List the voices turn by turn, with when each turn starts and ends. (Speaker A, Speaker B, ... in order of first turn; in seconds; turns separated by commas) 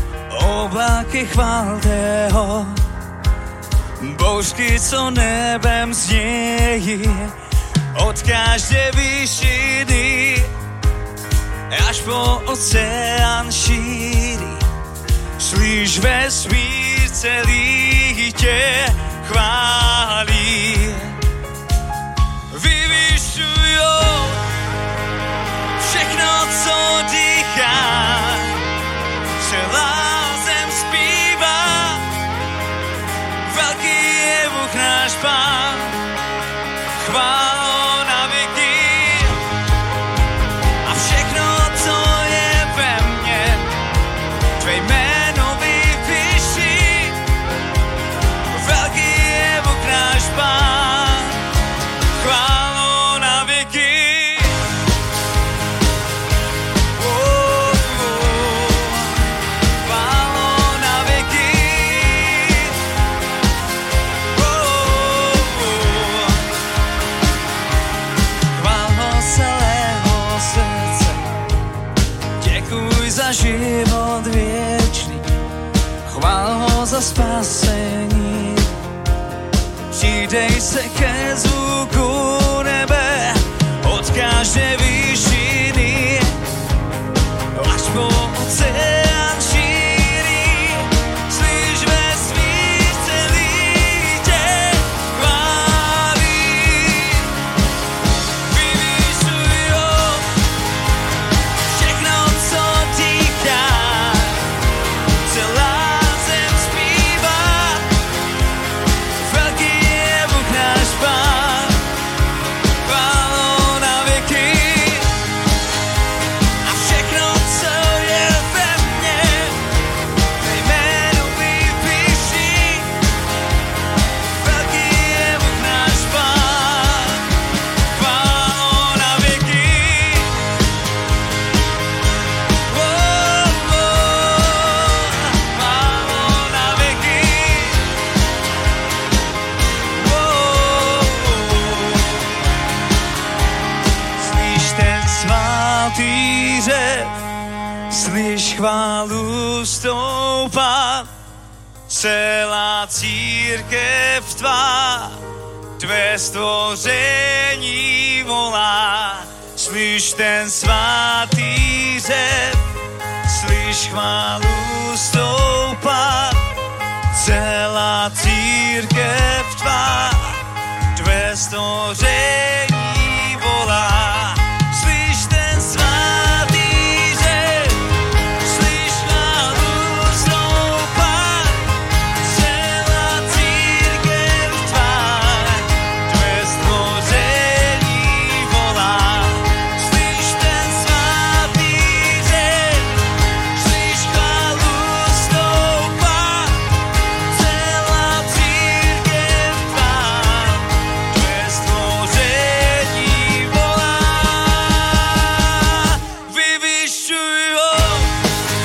Speaker A: 0.3-2.8, Speaker A: 4.0-7.3, Speaker A: 7.9-10.5, Speaker A: 11.7-14.7, Speaker A: 15.4-21.2, Speaker A: 22.5-24.4, Speaker A: 25.8-28.6, Speaker A: 29.4-32.1, Speaker A: 33.4-36.0, Speaker A: 37.0-39.4, Speaker A: 40.9-43.7, Speaker A: 44.6-47.2, Speaker A: 48.5-51.4, Speaker A: 52.2-54.7, Speaker A: 57.0-62.8, Speaker A: 64.3-66.5, Speaker A: 68.5-71.3, Speaker A: 72.4-75.2, Speaker A: 76.0-78.7, Speaker A: 79.9-86.4, Speaker A: 87.5-97.3, Speaker A: 98.5-100.3, Speaker A: 101.7-104.5, Speaker A: 105.2-107.9, Speaker A: 109.2-111.9, Speaker A: 112.8-115.2, Speaker A: 116.6-119.6, Speaker A: 120.4-123.0, Speaker A: 124.3-127.3, Speaker A: 127.9-130.4, Speaker A: 132.7-137.9, Speaker A: 139.9-142.4, Speaker A: 144.2-147.2, Speaker A: 147.9-151.1, Speaker A: 151.9-155.2, Speaker A: 155.8-162.6, Speaker A: 163.2-166.4, Speaker A: 167.1-170.4, Speaker A: 170.9-177.9, Speaker A: 178.4-196.7, Speaker A: 197.3-208.2